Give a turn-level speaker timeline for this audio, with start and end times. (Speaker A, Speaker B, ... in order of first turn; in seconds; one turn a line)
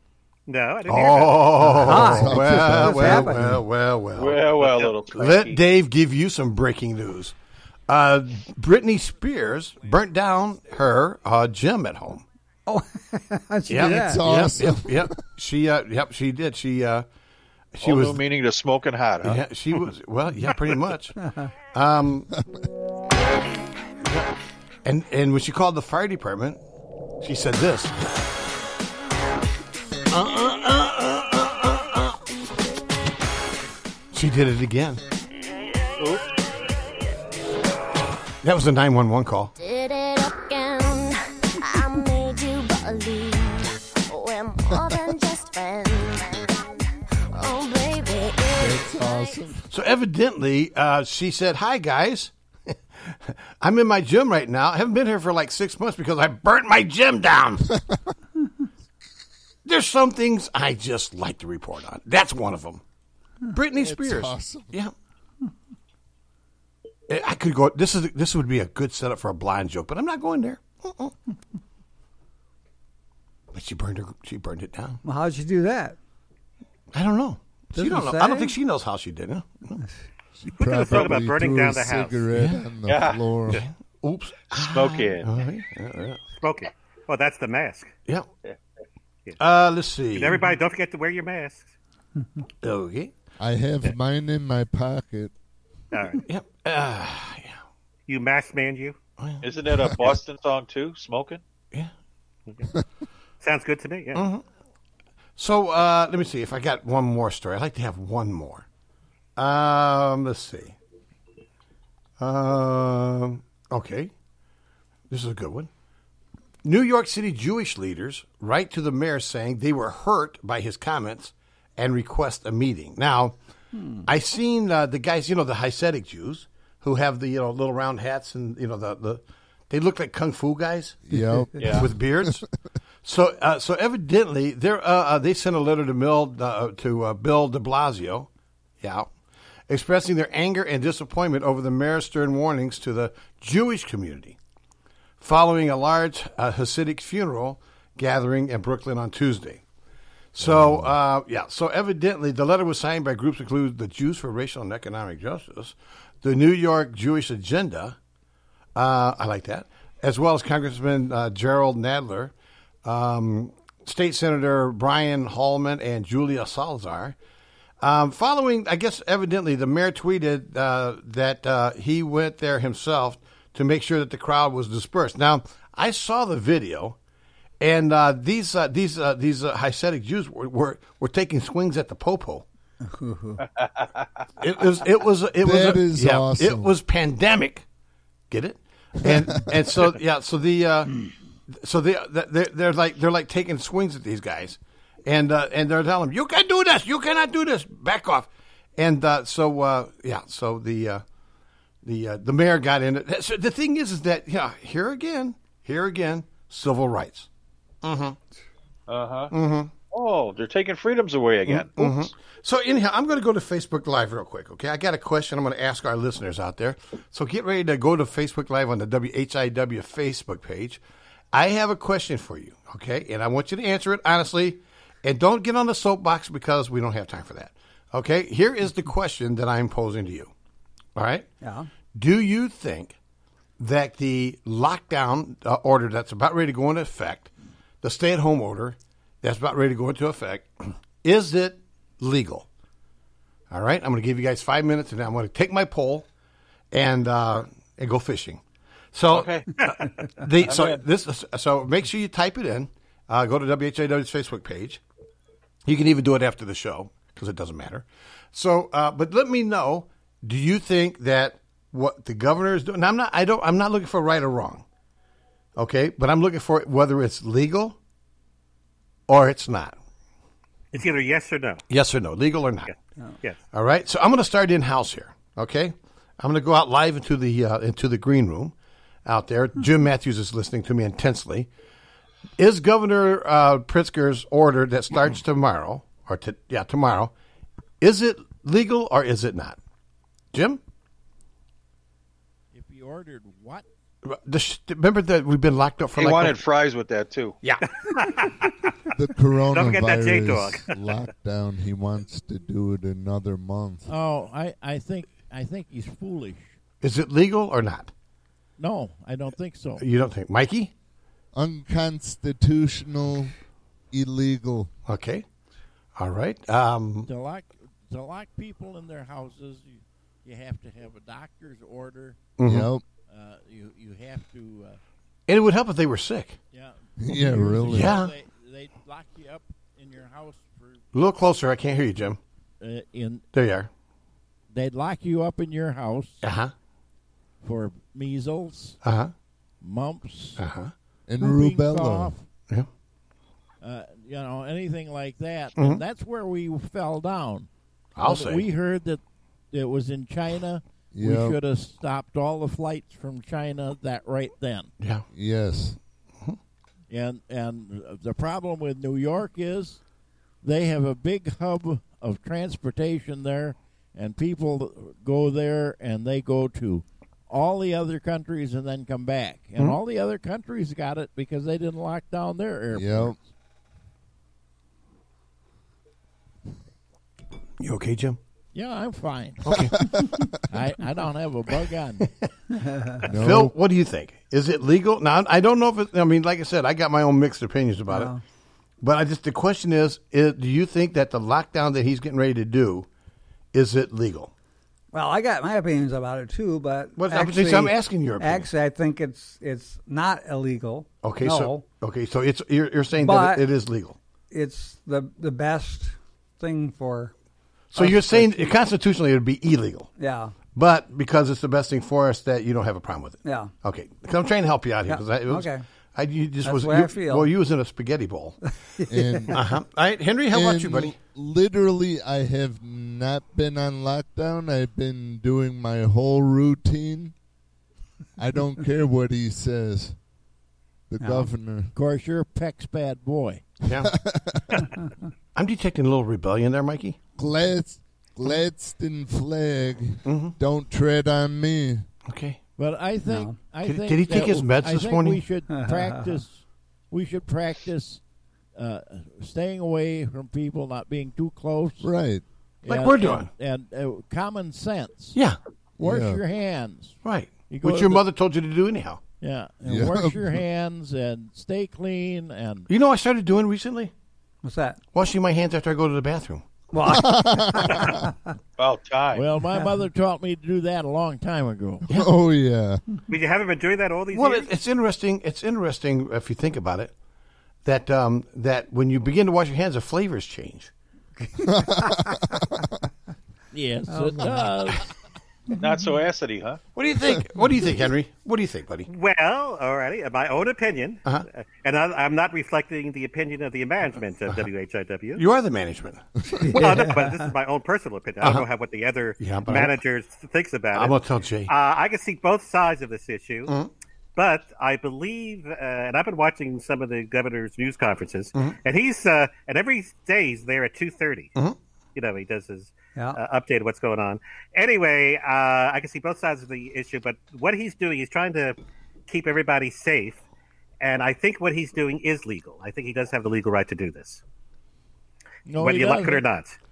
Speaker A: 0.5-1.6
Speaker B: 0.9-7.3
Speaker C: 1.7-3.6
Speaker D: 1.8-3.6
Speaker E: 4.2-5.6
Speaker B: 7.9-12.2
Speaker D: 12.7-14.2
Speaker B: 13.7-17.1
Speaker C: 13.8-15.1
Speaker B: 17.7-18.2
Speaker E: 17.8-19.4
Speaker B: 19.2-21.2
Speaker D: 21.2-21.5
Speaker B: 21.7-22.3
Speaker B: 24.0-24.3
Speaker B: 24.9-26.6
Speaker B: 27.2-27.9
Speaker B: 30.1-32.2
Speaker B: 34.1-35.0
Speaker B: 38.4-39.5
Speaker F: 39.6-46.6
Speaker F: 47.3-49.4
Speaker C: 48.6-49.7
Speaker B: 49.7-57.6
Speaker B: 59.6-62.8
Speaker B: 63.5-64.9
Speaker C: 63.8-64.7
Speaker B: 67.1-71.1
Speaker B: 73.5-75.0
Speaker D: 75.0-76.0
Speaker B: 76.9-79.8
Speaker D: 77.7-78.5
Speaker C: 80.4-83.7
Speaker A: 80.6-82.2
Speaker B: 82.3-82.7
Speaker E: 82.8-83.2
Speaker B: 83.5-86.2
Speaker E: 84.5-85.3
Speaker A: 86.4-87.9
Speaker B: 89.4-90.4
Speaker A: 90.1-91.7
Speaker B: 92.6-93.1
Speaker C: 93.4-95.3
Speaker A: 95.9-96.2
Speaker B: 96.3-97.6
Speaker A: 98.1-99.0
Speaker B: 99.2-100.1
Speaker E: 99.4-101.4
Speaker A: 103.4-104.2
Speaker B: 104.1-104.4
Speaker B: 105.4-108.7
Speaker B: 109.4-110.8
Speaker B: 112.2-114.1
Speaker B: 115.1-115.7
Speaker B: 116.6-123.3
Speaker D: 123.7-124.1
Speaker B: 124.1-131.0
Speaker C: 131.1-132.4
Speaker E: 131.6-131.8
Speaker B: 131.7-132.4
Speaker B: 133.0-138.3
Speaker B: 138.8-139.1
Speaker B: 139.7-144.4
Speaker B: 145.2-149.6
Speaker B: 150.3-158.0
Speaker C: 150.4-150.9
Speaker B: 158.8-162.3
Speaker B: 162.8-167.2
Speaker B: 167.8-177.0
Speaker B: 177.6-182.5
Speaker D: 182.8-183.4
Speaker E: 183.6-184.1
Speaker B: 184.4-187.7
Speaker C: 185.4-186.7
Speaker B: 188.3-191.0
Speaker B: 191.5-201.0
Speaker B: 201.8-207.3
Speaker B: 207.8-208.2
Speaker E: 208.9-209.3
Speaker B: 209.3-209.7
Speaker E: 209.9-212.1
Speaker B: 211.4-230.3
Speaker B: 231.0-231.3
Speaker D: 231.4-231.7
Speaker B: 231.9-233.0
Speaker B: 233.6-237.3
Speaker B: 237.8-242.5
Speaker B: 243.5-246.1
Speaker B: 246.7-248.4
Speaker B: 248.9-249.3
Speaker E: 249.1-249.5
Speaker B: 250.2-254.8
Speaker E: 250.4-250.8
Speaker B: 255.7-264.6
Speaker B: 265.6-267.8
Speaker B: 269.1-269.8
Speaker A: 270.7-271.6
Speaker B: 271.7-272.7
Speaker B: 273.5-278.5
Speaker B: 279.1-281.5
Speaker B: 282.4-287.1
Speaker B: 287.8-289.6
Speaker B: 290.3-290.6
Speaker G: 292.5-293.6
Speaker B: 294.0-296.4
Speaker E: 296.0-297.4
Speaker A: 297.9-298.7
Speaker C: 298.9-303.9
Speaker A: 299.5-300.7
Speaker G: 303.9-306.6
Speaker B: 306.8-307.9
Speaker G: 308.6-309.9
Speaker B: 309.8-310.7
Speaker C: 311.4-313.3
Speaker C: 313.9-314.7
Speaker B: 314.9-315.2
Speaker B: 316.0-317.1
Speaker G: 317.1-322.3
Speaker B: 322.4-322.7
Speaker C: 322.4-322.9
Speaker G: 323.1-324.8
Speaker B: 325.3-326.4
Speaker G: 326.5-330.9
Speaker C: 327.0-328.0
Speaker B: 327.7-328.1
Speaker B: 330.9-332.2
Speaker G: 332.6-333.3
Speaker B: 333.3-333.7
Speaker G: 334.5-336.2
Speaker B: 336.2-336.5
Speaker G: 337.4-338.8
Speaker B: 338.8-339.1
Speaker G: 339.6-340.4
Speaker B: 340.4-340.7
Speaker C: 341.1-342.1
Speaker G: 341.2-342.3
Speaker G: 343.6-347.5
Speaker B: 345.6-345.8
Speaker B: 348.0-348.5
Speaker G: 348.0-349.0
Speaker G: 349.5-354.7
Speaker C: 350.9-351.4
Speaker B: 354.8-355.1
Speaker C: 355.1-355.8
Speaker G: 356.9-359.8
Speaker G: 360.4-373.2
Speaker C: 372.7-373.2
Speaker B: 377.6-378.2
Speaker G: 378.5-379.5
Speaker B: 379.4-379.8
Speaker C: 379.8-380.2
Speaker G: 380.5-382.1
Speaker D: 382.5-383.0
Speaker C: 383.1-383.5
Speaker B: 383.1-388.1
Speaker D: 387.9-388.2
Speaker B: 388.8-392.9
Speaker B: 393.5-394.3
Speaker D: 394.9-401.6
Speaker B: 397.0-398.5
Speaker B: 401.0-404.0
Speaker D: 403.0-403.5
Speaker D: 404.3-407.1
Speaker B: 407.7-409.9
Speaker D: 407.8-408.5
Speaker D: 410.0-410.3
Speaker B: 410.6-418.4
Speaker D: 413.2-413.5
Speaker D: 414.9-415.6
Speaker D: 416.4-417.3
Speaker D: 418.8-419.3
Speaker C: 418.9-419.4
Speaker B: 419.3-421.0
Speaker C: 420.3-427.1
Speaker C: 428.2-430.0
Speaker C: 430.9-431.7
Speaker D: 431.0-431.3
Speaker G: 431.8-433.5
Speaker B: 433.6-433.9
Speaker C: 433.8-434.4
Speaker B: 435.4-437.0
Speaker C: 437.2-441.9
Speaker B: 440.1-440.4
Speaker B: 442.1-442.4
Speaker G: 442.6-448.0
Speaker D: 443.1-443.4
Speaker B: 443.6-445.2
Speaker D: 445.5-446.1
Speaker G: 448.6-451.9
Speaker C: 451.8-452.3
Speaker G: 452.6-455.2
Speaker B: 452.7-453.3
Speaker C: 455.8-456.2
Speaker G: 455.8-458.0
Speaker B: 457.0-459.0
Speaker G: 459.2-462.7
Speaker C: 459.6-460.4
Speaker B: 462.7-463.9
Speaker D: 464.4-464.8
Speaker B: 464.9-466.4
Speaker D: 466.7-468.1
Speaker C: 466.9-468.0
Speaker E: 468.6-469.2
Speaker G: 469.1-471.9
Speaker C: 471.9-472.8
Speaker A: 473.1-474.5
Speaker B: 474.1-476.9
Speaker B: 477.6-480.7
Speaker D: 481.2-482.6
Speaker C: 481.6-482.0
Speaker G: 483.5-484.9
Speaker D: 483.9-484.5
Speaker E: 485.6-486.6
Speaker B: 486.8-488.9
Speaker A: 488.9-495.2
Speaker B: 495.2-496.1
Speaker D: 496.4-497.3
Speaker A: 496.6-503.6
Speaker B: 498.2-498.5
Speaker B: 499.2-499.8
Speaker B: 500.7-501.5
Speaker A: 504.2-511.3
Speaker A: 511.9-518.6
Speaker A: 519.1-520.2
Speaker A: 520.8-524.2
Speaker G: 525.5-526.2
Speaker A: 525.6-526.6